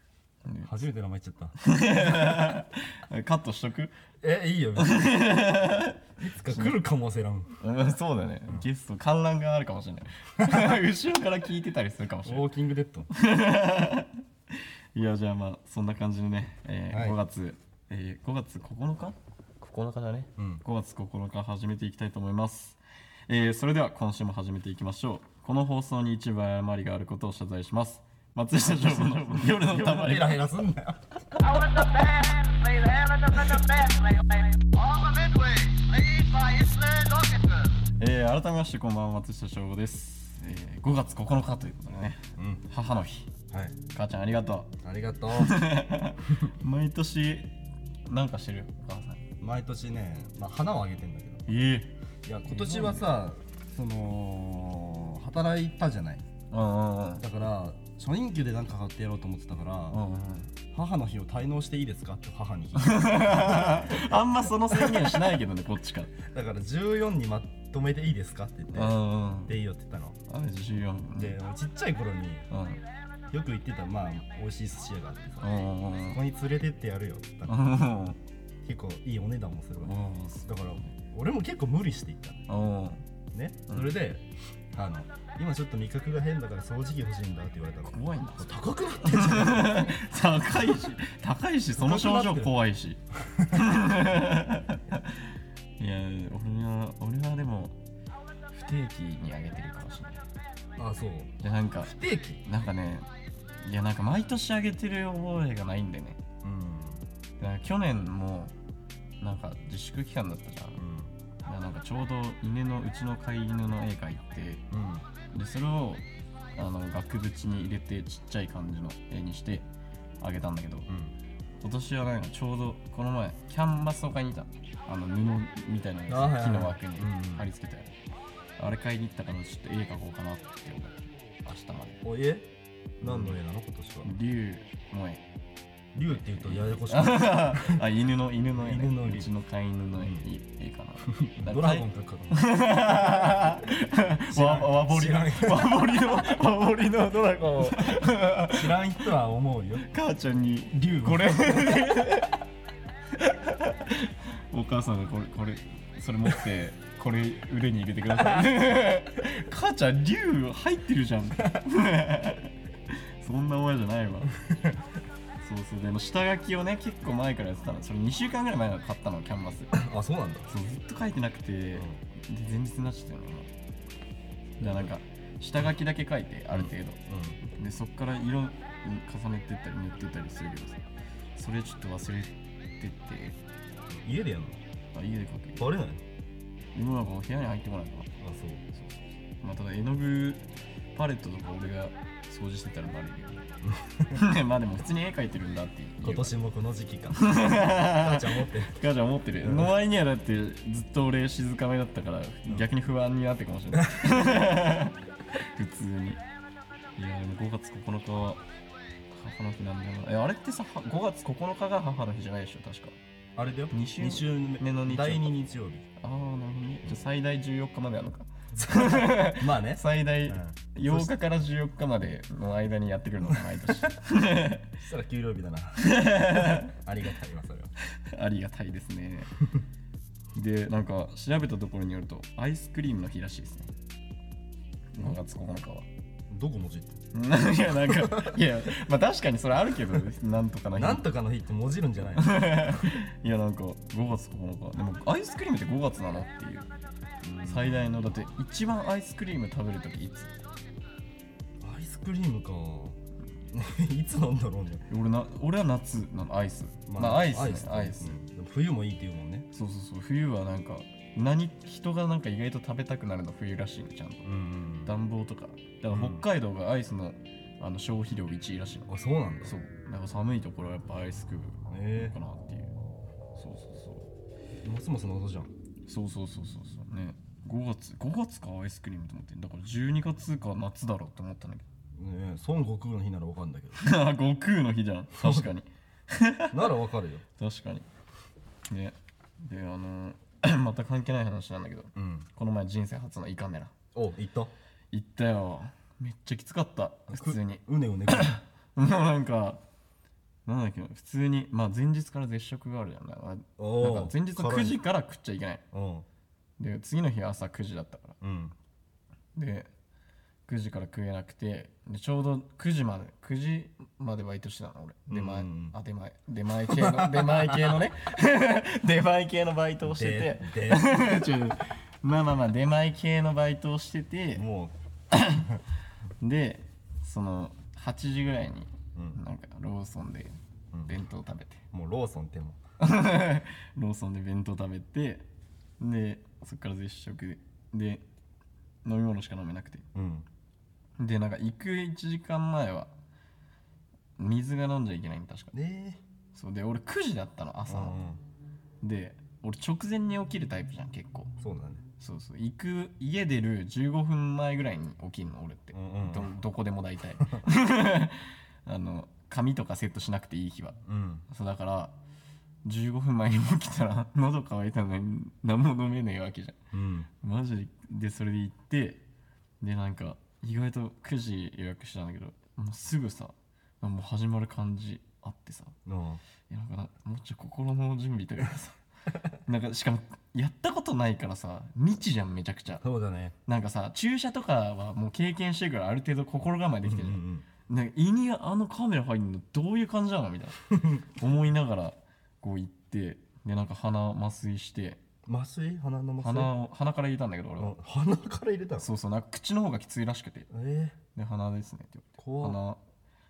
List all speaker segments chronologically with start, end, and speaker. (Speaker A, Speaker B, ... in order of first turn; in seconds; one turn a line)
Speaker A: 0.6-1.6
Speaker B: 1.6-3.9
Speaker A: 4.2-5.1
Speaker B: 4.8-6.8
Speaker A: 6.2-7.5
Speaker B: 7.6-12.5
Speaker A: 10.4-10.7
Speaker A: 12.2-13.1
Speaker B: 13.1-14.2
Speaker B: 14.9-30.4
Speaker A: 16.9-17.2
Speaker A: 20.4-20.6
Speaker A: 28.8-31.0
Speaker C: 31.4-37.8
Speaker B: 38.0-43.3
Speaker A: 42.4-42.6
Speaker A: 43.5-43.8
Speaker B: 43.9-44.7
Speaker A: 44.8-45.7
Speaker B: 45.3-47.5
Speaker B: 48.1-49.3
Speaker A: 49.4-51.6
Speaker B: 51.5-51.9
Speaker A: 52.2-56.2
Speaker B: 52.5-53.1
Speaker B: 56.5-57.2
Speaker A: 57.2-60.0
Speaker B: 59.9-60.5
Speaker A: 60.7-64.2
Speaker B: 62.8-66.1
Speaker A: 64.7-65.3
Speaker A: 66.3-70.2
Speaker B: 68.7-69.6
Speaker B: 70.3-71.4
Speaker A: 71.2-72.5
Speaker B: 72.5-72.8
Speaker A: 73.3-77.5
Speaker B: 75.4-76.2
Speaker B: 77.5-78.2
Speaker A: 78.6-79.9
Speaker B: 79.8-80.9
Speaker A: 80.5-82.5
Speaker B: 82.5-83.0
Speaker A: 83.3-90.0
Speaker B: 83.7-83.9
Speaker B: 87.8-95.2
Speaker A: 91.8-92.6
Speaker A: 93.2-93.7
Speaker B: 95.8-97.8
Speaker B: 98.5-100.3
Speaker A: 100.8-102.4
Speaker B: 101.4-103.1
Speaker B: 103.6-106.2
Speaker A: 106.4-107.0
Speaker B: 107.4-108.5
Speaker B: 109.2-110.8
Speaker A: 110.8-111.1
Speaker B: 111.4-114.7
Speaker A: 114.7-115.1
Speaker B: 115.3-116.0
Speaker B: 116.6-119.7
Speaker B: 120.2-120.9
Speaker A: 120.9-121.2
Speaker B: 121.6-127.9
Speaker A: 126.1-127.5
Speaker B: 128.6-132.0
Speaker A: 132.0-132.5
Speaker B: 133.0-133.4
Speaker A: 133.0-134.1
Speaker B: 134.0-135.2
Speaker A: 135.9-137.8
Speaker B: 136.2-149.0
Speaker A: 138.6-139.3
Speaker A: 141.1-142.4
Speaker A: 144.3-146.3
Speaker A: 147.7-149.9
Speaker B: 149.8-152.4
Speaker A: 150.7-151.9
Speaker B: 153.2-162.6
Speaker B: 163.2-164.4
Speaker B: 165.4-169.8
Speaker A: 169.7-170.5
Speaker B: 170.5-173.5
Speaker B: 174.6-183.4
Speaker A: 174.6-174.9
Speaker A: 176.5-177.4
Speaker A: 184.0-184.6
Speaker B: 184.9-185.7
Speaker A: 185.6-186.0
Speaker B: 186.8-188.1
Speaker A: 188.2-188.7
Speaker B: 188.7-193.5
Speaker A: 193.6-194.2
Speaker B: 194.1-196.3
Speaker A: 196.0-198.8
Speaker B: 197.2-206.2
Speaker A: 199.4-199.7
Speaker A: 203.8-204.1
Speaker B: 207.0-208.4
Speaker B: 209.1-213.0
Speaker A: 213.4-215.9
Speaker B: 213.7-215.3
Speaker B: 216.0-224.7
Speaker A: 218.5-221.1
Speaker A: 224.8-227.7
Speaker B: 225.8-226.8
Speaker B: 228.0-229.3
Speaker B: 230.3-233.7
Speaker B: 234.9-235.9
Speaker A: 236.3-237.0
Speaker B: 237.1-241.1
Speaker A: 238.0-238.3
Speaker A: 240.8-242.9
Speaker B: 242.2-246.7
Speaker B: 247.3-250.3
Speaker A: 247.4-247.9
Speaker A: 251.6-253.0
Speaker A: 253.5-254.9
Speaker B: 254.9-258.2
Speaker A: 256.9-259.5
Speaker B: 259.5-264.3
Speaker A: 264.2-264.9
Speaker B: 264.8-268.9
Speaker A: 265.9-266.3
Speaker A: 268.9-269.5
Speaker B: 269.4-272.8
Speaker A: 271.7-272.2
Speaker B: 273.4-274.1
Speaker A: 274.6-275.5
Speaker B: 275.9-281.6
Speaker A: 282.0-283.8
Speaker B: 283.8-286.7
Speaker A: 285.2-285.5
Speaker A: 286.5-287.2
Speaker B: 287.4-287.9
Speaker B: 288.7-293.7
Speaker A: 292.0-292.3
Speaker A: 293.9-294.5
Speaker B: 294.9-299.6
Speaker A: 297.1-298.4
Speaker B: 300.5-305.6
Speaker A: 303.6-304.8
Speaker A: 305.7-306.1
Speaker B: 306.6-308.2
Speaker A: 308.2-308.6
Speaker B: 309.4-309.7
Speaker B: 310.5-324.4
Speaker A: 315.1-315.8
Speaker A: 316.7-317.7
Speaker A: 319.8-321.2
Speaker A: 324.4-324.8
Speaker B: 325.1-325.5
Speaker B: 326.2-331.6
Speaker A: 328.9-329.2
Speaker A: 330.7-331.0
Speaker A: 331.7-332.6
Speaker B: 332.8-335.2
Speaker B: 335.8-338.0
Speaker B: 338.8-339.9
Speaker A: 339.9-340.3
Speaker B: 341.0-342.9
Speaker B: 344.2-345.5
Speaker A: 345.5-346.0
Speaker B: 346.3-348.1
Speaker A: 347.7-348.2
Speaker B: 348.8-351.3
Speaker A: 351.4-351.8
Speaker B: 352.0-361.9
Speaker A: 355.7-356.3
Speaker A: 360.9-361.2
Speaker B: 362.6-366.6
Speaker A: 366.7-367.1
Speaker B: 367.2-369.0
Speaker B: 369.6-375.8
Speaker A: 375.9-376.2
Speaker B: 376.5-378.8
Speaker B: 379.3-382.8
Speaker A: 382.8-383.4
Speaker B: 383.5-395.0
Speaker A: 386.8-387.5
Speaker A: 390.7-391.0
Speaker A: 395.3-396.5
Speaker B: 396.2-397.8
Speaker A: 397.6-398.9
Speaker B: 398.8-400.5
Speaker A: 400.5-401.0
Speaker B: 401.1-402.8
Speaker A: 402.2-402.6